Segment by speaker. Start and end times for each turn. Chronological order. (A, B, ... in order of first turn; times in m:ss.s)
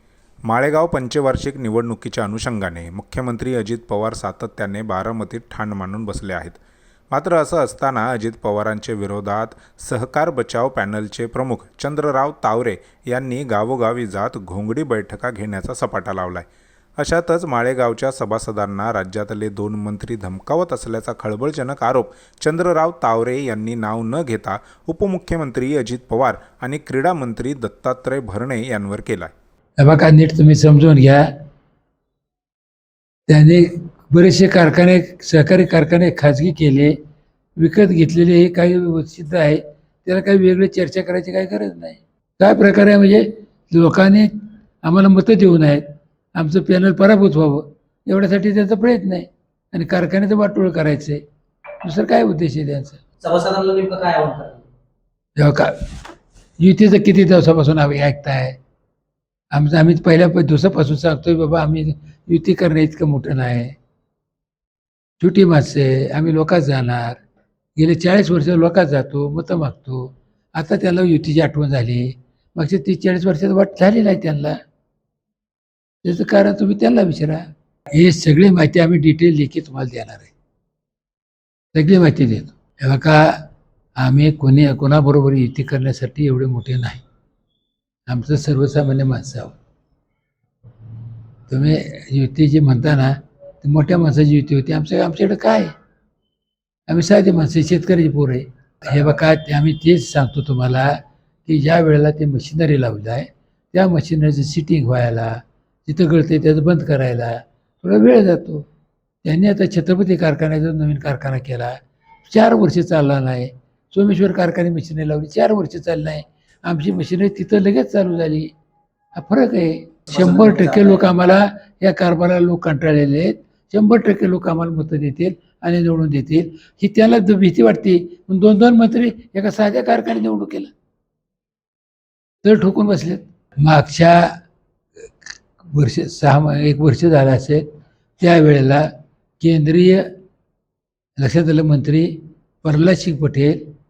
0:00.5-0:06.6 A
0:07.1-0:16.5 A
0:17.0-0:29.3 A
0:29.8-0:31.3 B
0:33.3-0:37.0 B
0:37.6-0:44.3 B
0:44.8-0:51.2 B
0:51.8-0:53.0 B
0:53.2-0:54.7 C
0:55.4-0:55.7 B
0:56.6-0:58.6 B
0:59.5-1:03.7 B
1:05.2-1:07.2 B
1:07.8-1:14.6 B
1:16.0-1:17.4 B
1:17.9-1:20.3 B
1:21.7-1:23.4 B
1:24.0-1:27.0 B
1:28.1-1:29.6 B
1:31.5-1:35.7 B
1:36.9-1:48.7 B
1:49.2-1:58.5 B
1:59.2-2:10.7 B
2:00.1-2:01.0 C
2:12.4-2:14.3 B
2:15.6-2:17.6 B
2:18.2-2:18.9 B
2:19.4-2:20.1 B
2:21.2-2:23.6 B